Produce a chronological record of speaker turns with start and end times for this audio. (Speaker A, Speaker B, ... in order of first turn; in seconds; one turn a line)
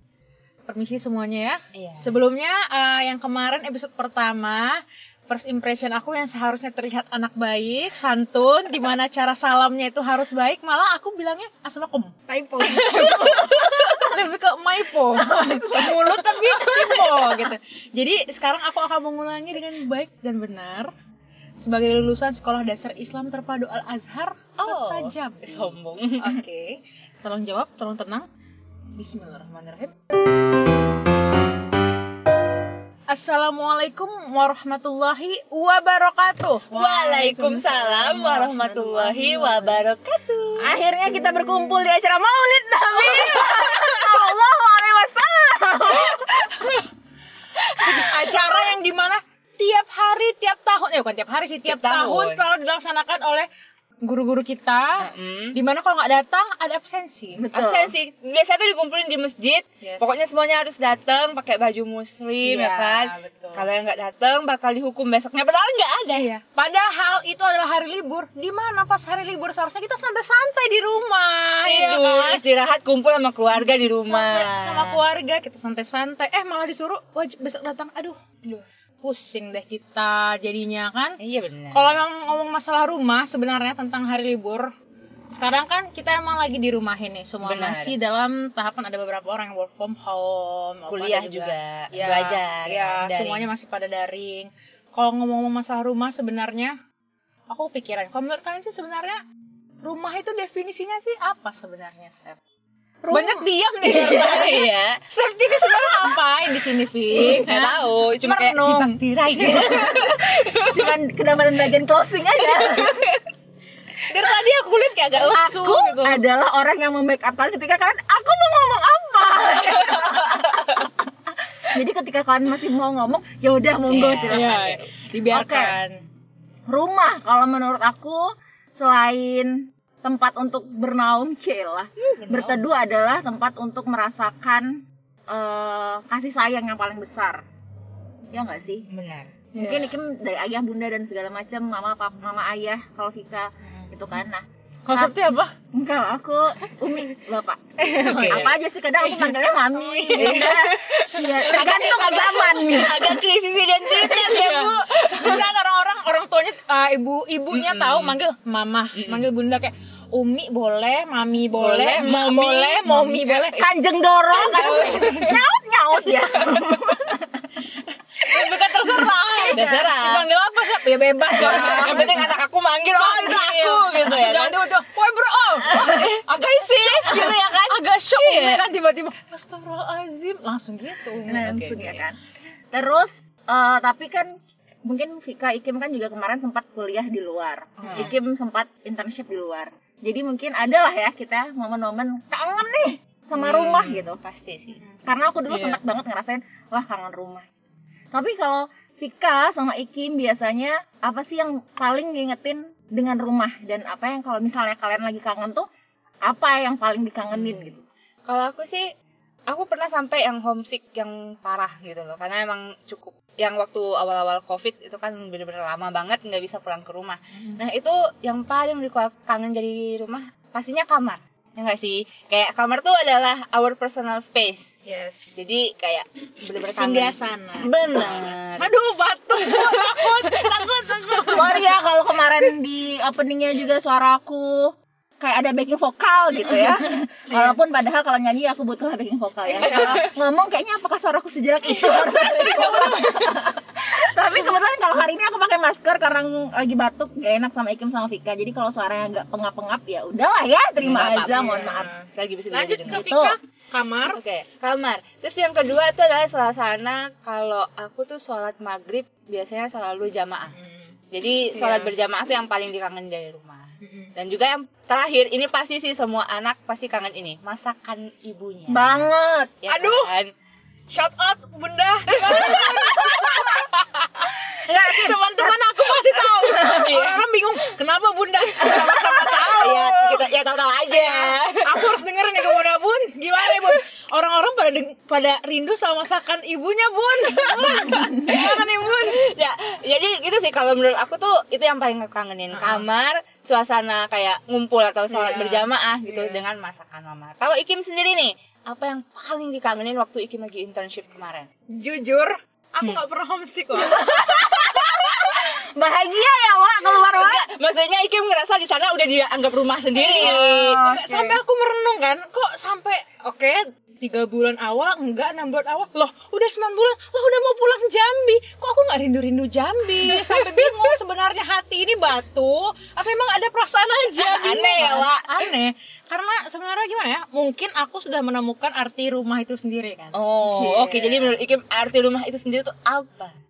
Speaker A: 0.7-4.8
Speaker B: 1.7-2.1
Speaker A: 5.3-20.9
Speaker C: 12.3-13.9
Speaker B: 12.9-13.8
Speaker C: 15.3-15.9
Speaker B: 16.0-17.4
Speaker A: 21.6-28.2
Speaker B: 24.6-26.4
Speaker A: 28.9-29.9
Speaker A: 33.1-36.6
Speaker C: 36.7-39.8
Speaker B: 36.7-40.8
Speaker C: 40.6-46.5
Speaker B: 46.1-46.8
Speaker B: 47.6-48.5
Speaker A: 47.8-53.5
Speaker B: 51.6-52.5
Speaker A: 54.0-57.4
Speaker B: 55.0-55.6
Speaker C: 57.4-57.9
Speaker B: 57.5-66.3
Speaker A: 59.8-60.2
Speaker A: 62.4-63.7
Speaker A: 66.2-72.4
Speaker B: 71.7-75.0
Speaker A: 74.0-81.2
Speaker B: 81.2-81.8
Speaker A: 81.7-84.7
Speaker A: 85.3-96.7
Speaker B: 87.4-87.9
Speaker B: 90.9-93.5
Speaker A: 97.5-99.2
Speaker A: 99.8-102.4
Speaker C: 103.0-104.5
Speaker A: 103.1-110.1
Speaker B: 103.8-105.0
Speaker B: 105.5-106.2
Speaker B: 107.1-110.9
Speaker C: 109.5-113.2
Speaker B: 112.5-113.1
Speaker A: 114.1-116.2
Speaker B: 115.0-116.0
Speaker C: 115.4-121.0
Speaker C: 121.7-125.8
Speaker B: 123.9-124.6
Speaker A: 124.3-126.0
Speaker C: 126.7-137.4
Speaker B: 132.1-132.6
Speaker C: 138.3-138.9
Speaker B: 138.9-139.3
Speaker A: 139.5-139.9
Speaker C: 139.6-145.2
Speaker A: 144.8-145.5
Speaker C: 145.7-153.2
Speaker B: 147.8-149.3
Speaker A: 148.0-148.5
Speaker B: 149.9-155.4
Speaker A: 150.1-150.5
Speaker A: 151.4-153.0
Speaker A: 153.9-163.6
Speaker B: 157.5-158.2
Speaker B: 158.9-159.3
Speaker B: 161.6-163.5
Speaker C: 163.6-167.3
Speaker A: 164.3-165.4
Speaker A: 168.2-172.3
Speaker C: 168.4-169.9
Speaker B: 169.5-170.2
Speaker C: 171.3-171.9
Speaker B: 171.3-174.6
Speaker A: 172.9-181.4
Speaker B: 175.6-178.6
Speaker B: 181.2-182.0
Speaker C: 181.3-182.2
Speaker C: 182.7-184.3
Speaker C: 184.8-194.2
Speaker A: 187.8-188.1
Speaker B: 187.8-188.1
Speaker B: 193.4-194.8
Speaker A: 194.8-195.8
Speaker C: 195.0-197.4
Speaker C: 198.1-205.7
Speaker C: 206.2-207.8
Speaker B: 207.3-207.6
Speaker B: 208.2-208.8
Speaker B: 209.5-224.7
Speaker A: 224.8-225.4
Speaker B: 225.3-228.7
Speaker A: 226.7-227.7
Speaker A: 228.6-231.6
Speaker B: 229.3-231.5
Speaker C: 231.3-251.9
Speaker A: 237.3-237.6
Speaker A: 239.4-240.0
Speaker B: 239.6-240.0
Speaker A: 241.7-243.3
Speaker B: 250.8-251.5
Speaker A: 251.1-254.2
Speaker B: 252.1-253.0
Speaker C: 252.9-253.3
Speaker B: 254.1-260.6
Speaker A: 260.5-260.9
Speaker B: 261.1-269.1
Speaker A: 261.5-261.9
Speaker A: 263.8-264.1
Speaker C: 268.7-269.5
Speaker B: 269.6-270.3
Speaker A: 269.7-270.1
Speaker A: 270.9-280.2
Speaker B: 272.1-273.5
Speaker C: 274.7-275.5
Speaker B: 276.3-277.6
Speaker C: 278.6-279.4
Speaker B: 279.4-282.0
Speaker A: 280.9-289.2
Speaker B: 283.4-283.8
Speaker B: 287.2-301.5
Speaker A: 292.5-292.8
Speaker A: 295.1-296.4
Speaker A: 301.7-304.0
Speaker C: 303.8-307.4
Speaker B: 307.0-310.8
Speaker A: 309.9-330.2
Speaker C: 310.2-311.4
Speaker B: 320.0-320.7
Speaker B: 324.2-325.4
Speaker B: 330.1-333.3
Speaker C: 330.4-331.3